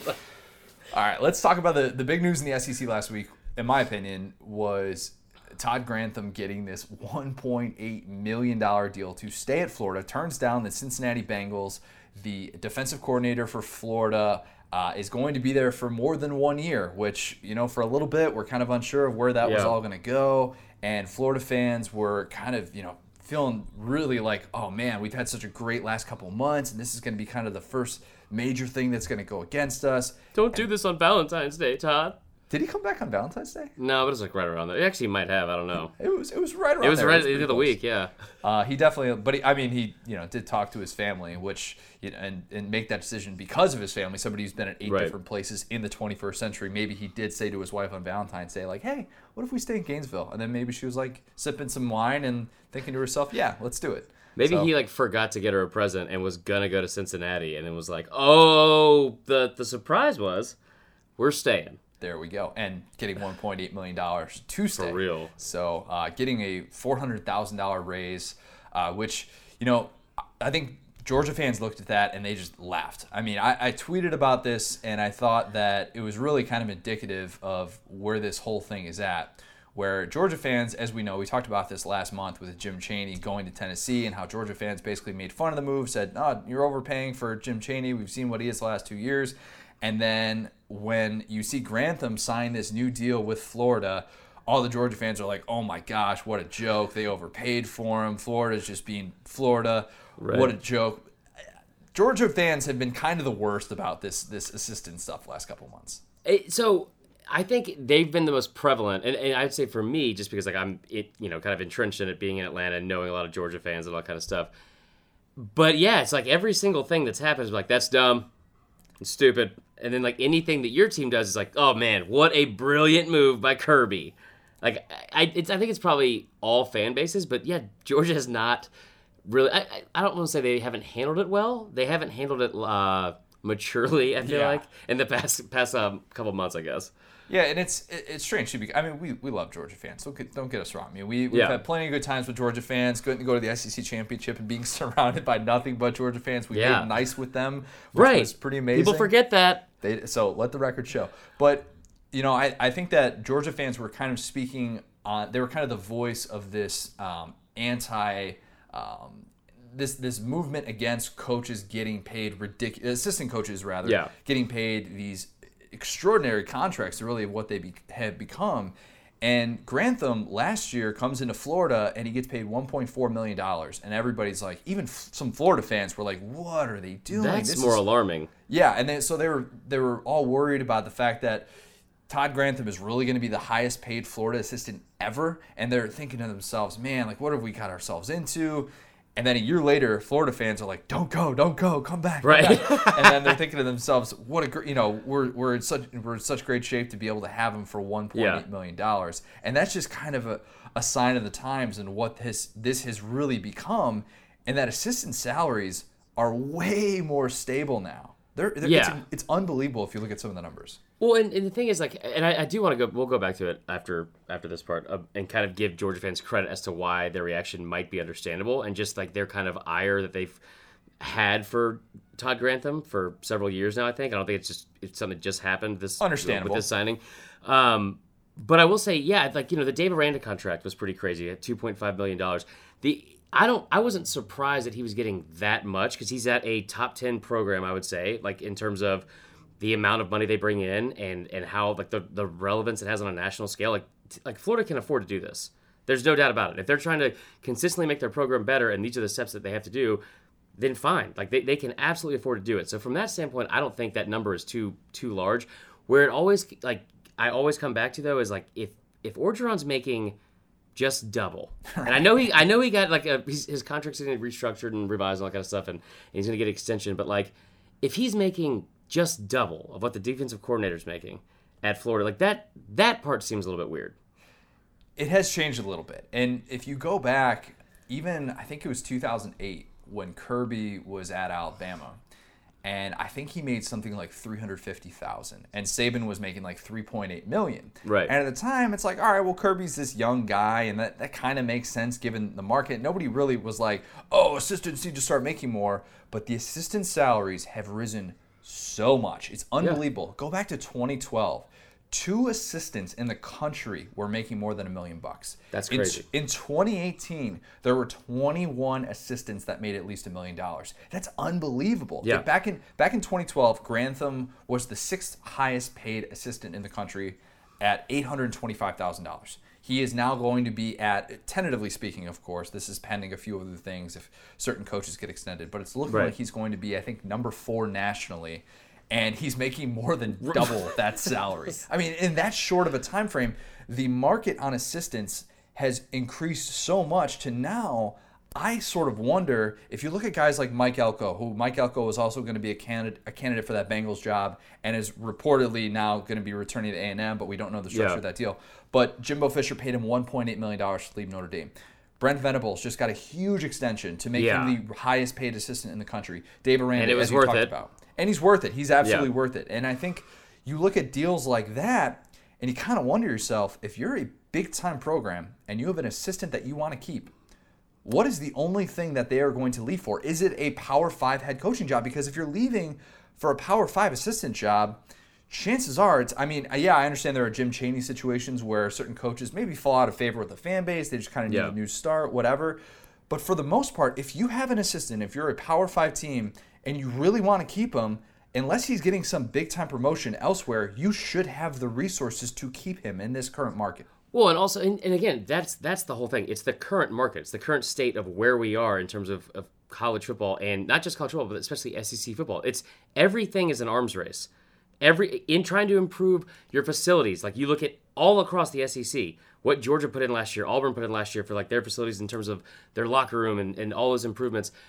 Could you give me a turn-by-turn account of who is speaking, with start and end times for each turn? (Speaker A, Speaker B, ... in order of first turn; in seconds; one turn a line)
Speaker A: 0.9-30.6
Speaker B: 19.4-19.7
Speaker B: 30.3-32.1
Speaker A: 32.5-33.7
Speaker B: 33.8-35.9
Speaker A: 36.0-37.8
Speaker B: 36.8-38.1
Speaker A: 38.4-54.7
Speaker B: 44.8-45.1
Speaker B: 54.4-60.5
Speaker B: 61.2-61.8
Speaker A: 62.0-101.1
Speaker B: 64.7-65.3
Speaker B: 100.2-100.5
Speaker A: 101.9-106.0
Speaker B: 106.2-114.5
Speaker B: 115.4-118.3
Speaker B: 119.0-128.7
Speaker B: 129.2-136.9
Speaker A: 134.2-134.6
Speaker A: 137.3-149.1
Speaker B: 141.3-141.6
Speaker B: 146.5-146.9
Speaker B: 147.9-149.7
Speaker A: 149.8-177.8
Speaker B: 163.8-164.1
Speaker B: 177.1-178.3
Speaker A: 178.5-181.5
Speaker A: 182.1-210.8
Speaker B: 192.2-193.4
Speaker B: 198.1-198.4
Speaker B: 208.6-209.0
Speaker B: 211.0-220.4
Speaker B: 221.0-239.1
Speaker A: 226.0-226.7
Speaker B: 239.6-250.0
Speaker B: 250.6-260.1
Speaker B: 260.7-273.9
Speaker A: 261.7-262.4
Speaker A: 275.0-282.0
Speaker A: 282.6-367.1
Speaker B: 287.8-288.1
Speaker B: 305.5-306.1
Speaker B: 325.9-326.1
Speaker B: 330.2-330.5
Speaker B: 347.7-348.0
Speaker B: 354.1-354.6
Speaker B: 356.8-357.5
Speaker B: 358.8-359.1
Speaker A: 367.8-393.9
Speaker B: 381.3-381.5
Speaker B: 394.1-404.3
Speaker B: 404.8-414.5